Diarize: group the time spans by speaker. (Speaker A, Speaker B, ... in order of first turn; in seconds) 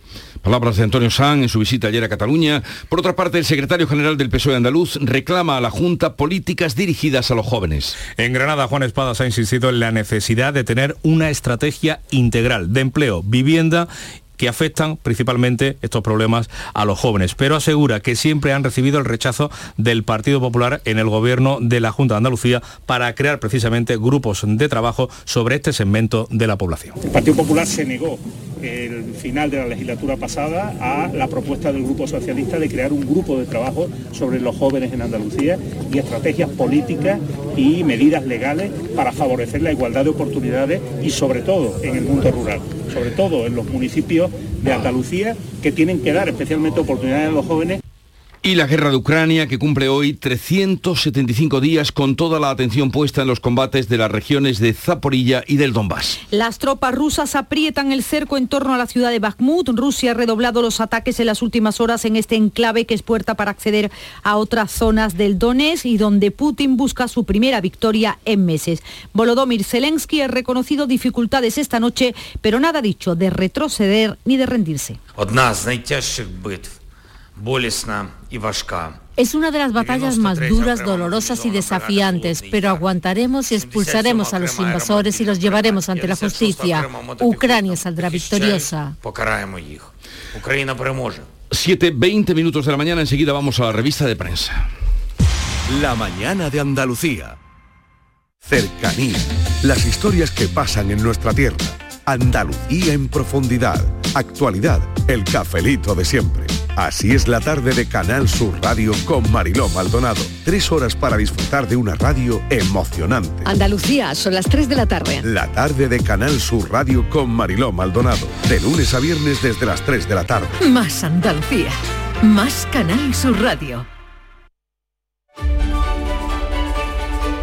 Speaker A: 0.4-8.0, 48.4-56.2, 91.5-94.7
Speaker B: 8.1-27.0
Speaker C: 27.0-47.8
Speaker D: 56.3-75.0
Speaker E: 75.2-76.7, 77.4-91.3
Speaker F: 95.7-97.4, 98.4-113.5, 115.2-120.5
Speaker G: 113.5-115.2, 120.6-123.8